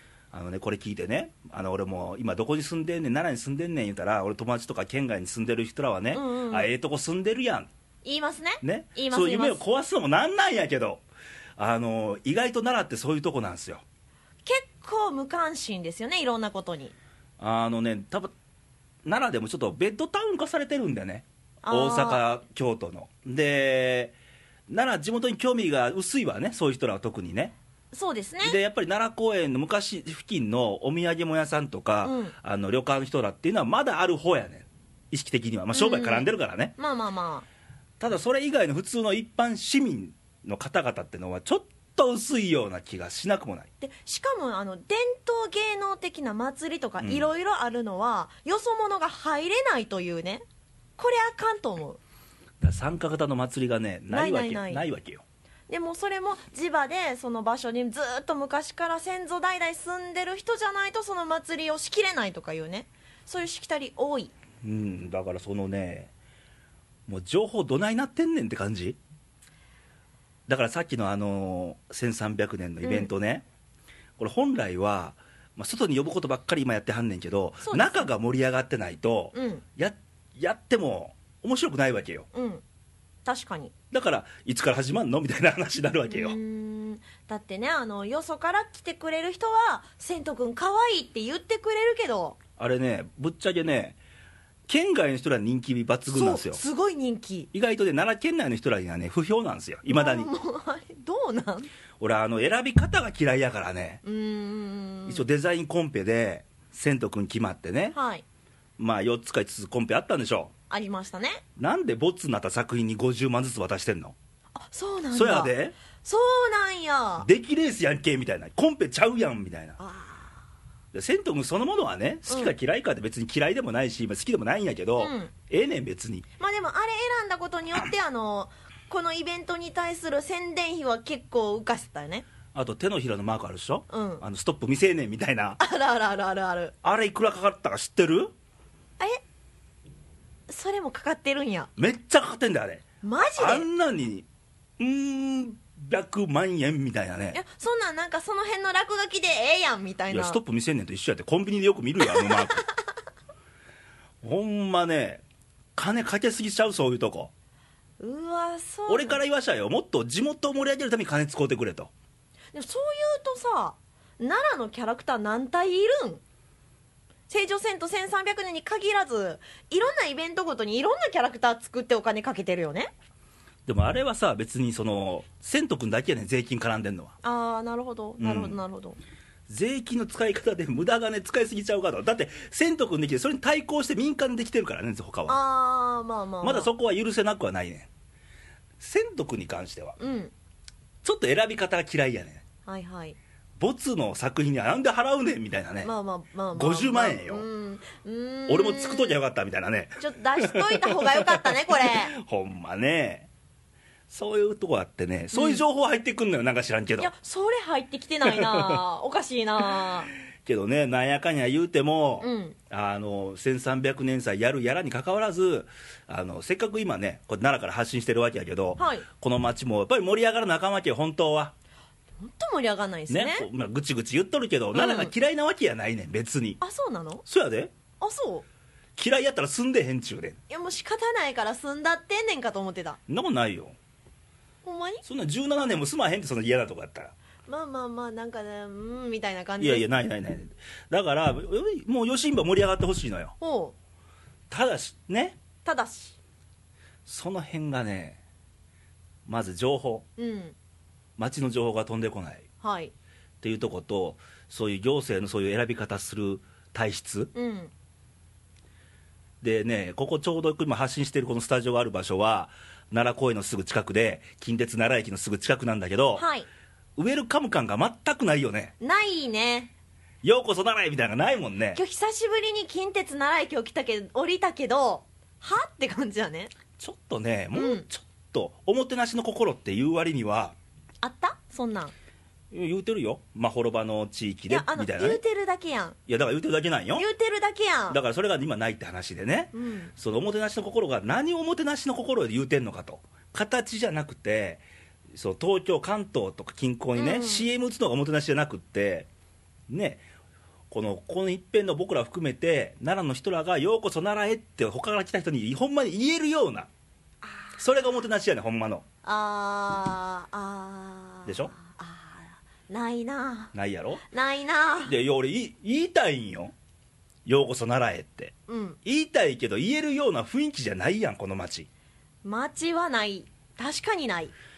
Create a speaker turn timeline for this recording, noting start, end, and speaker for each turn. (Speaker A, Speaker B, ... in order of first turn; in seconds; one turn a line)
Speaker A: 0.3-7.7
Speaker B: 6.1-6.7
Speaker B: 8.1-9.6
Speaker A: 8.6-11.0
Speaker A: 11.6-13.8
Speaker B: 14.5-16.9
Speaker A: 17.4-18.3
Speaker A: 19.1-24.1
Speaker B: 21.6-22.2
Speaker A: 24.7-27.5
Speaker B: 27.9-28.6
Speaker A: 28.4-36.7
Speaker B: 32.0-32.3
Speaker B: 35.7-37.5
Speaker A: 38.0-43.7
Speaker B: 43.8-50.4
Speaker A: 47.0-47.3
Speaker B: 51.0-52.0
Speaker A: 52.6-55.2
Speaker B: 54.1-54.8
Speaker B: 55.7-64.3
Speaker A: 64.6-66.1
Speaker A: 67.1-69.0
Speaker A: 70.5-73.5
Speaker B: 72.8-73.1
Speaker A: 74.2-82.3
Speaker B: 77.6-78.1
Speaker B: 79.3-79.6
Speaker B: 82.3-82.6
Speaker B: 83.2-83.7
Speaker A: 83.9-86.4
Speaker B: 86.1-92.4
Speaker A: 92.6-94.0
Speaker A: 94.7-96.6
Speaker B: 96.1-97.5
Speaker A: 97.5-100.3
Speaker B: 99.9-101.7
Speaker A: 102.0-104.0
Speaker B: 104.0-105.2
Speaker A: 105.1-108.0
Speaker B: 107.9-108.2
Speaker A: 108.8-110.5
Speaker B: 110.7-111.4
Speaker A: 111.6-114.2
Speaker B: 114.5-117.3
Speaker A: 115.1-115.8
Speaker A: 117.2-119.8
Speaker B: 119.8-120.4
Speaker A: 120.9-126.2
Speaker B: 122.3-122.5
Speaker B: 125.0-125.3
Speaker B: 126.4-132.3
Speaker A: 132.5-135.6
Speaker B: 133.9-134.2
Speaker B: 135.6-136.7
Speaker A: 136.8-138.3
Speaker B: 140.5-141.7
Speaker A: 141.8-144.3
Speaker B: 143.0-143.7
Speaker A: 144.8-147.4
Speaker B: 147.3-150.4
Speaker A: 150.1-152.7
Speaker B: 152.0-152.7
Speaker A: 154.2-155.2
Speaker A: 155.8-157.3
Speaker B: 158.0-159.2
Speaker A: 158.9-161.9
Speaker B: 162.5-166.2
Speaker B: 167.3-172.9
Speaker A: 173.7-177.2
Speaker B: 177.2-179.0
Speaker A: 178.2-178.6
Speaker A: 179.5-185.4
Speaker B: 185.3-186.7
Speaker A: 186.4-187.9
Speaker A: 188.8-190.0
Speaker B: 190.0-190.3
Speaker A: 191.0-192.4
Speaker B: 192.7-193.2
Speaker A: 193.6-195.9
Speaker B: 195.8-199.2
Speaker A: 196.5-197.5
Speaker A: 198.5-203.3
Speaker B: 200.0-202.1
Speaker A: 204.1-207.1
Speaker B: 205.3-205.6
Speaker B: 207.0-210.1
Speaker A: 208.3-208.8
Speaker A: 210.4-221.5
Speaker B: 212.2-212.6
Speaker B: 218.8-219.1
Speaker B: 222.2-223.5
Speaker A: 223.1-226.6
Speaker B: 224.7-225.1
Speaker B: 226.6-227.2
Speaker A: 227.3-227.7
Speaker B: 228.0-228.4
Speaker A: 229.0-230.4
Speaker B: 230.5-233.0
Speaker A: 233.1-233.8
Speaker B: 234.6-235.0
Speaker A: 235.0-237.1
Speaker B: 237.5-239.9
Speaker A: 239.6-243.3
Speaker B: 243.4-243.7
Speaker A: 244.5-245.4
Speaker B: 245.6-246.2
Speaker A: 247.1-248.2
Speaker A: 249.3-250.1
Speaker B: 250.2-250.6
Speaker A: 251.2-252.5
Speaker B: 252.6-252.9
Speaker A: 253.4-257.3
Speaker B: 257.4-257.7
Speaker A: 259.4-266.2
Speaker B: 266.2-266.5
Speaker A: 267.0-268.7
Speaker B: 268.8-269.7
Speaker A: 270.2-271.8
Speaker B: 271.7-276.5
Speaker A: 276.8-280.6
Speaker B: 277.5-277.9
Speaker B: 281.0-281.9
Speaker A: 282.5-285.2
Speaker B: 284.5-286.0
Speaker A: 286.1-287.1
Speaker B: 287.0-288.0
Speaker A: 287.9-299.1
Speaker B: 289.5-289.9
Speaker B: 297.0-297.5
Speaker A: 299.7-300.0
Speaker A: 300.7-306.7
Speaker B: 307.2-307.6
Speaker A: 307.6-308.9
Speaker B: 309.0-313.5
Speaker A: 311.3-311.5
Speaker A: 313.5-314.0
Speaker B: 314.1-314.9
Speaker A: 314.9-316.5
Speaker A: 317.3-318.3
Speaker B: 318.5-318.8
Speaker A: 318.9-321.7
Speaker B: 322.2-324.3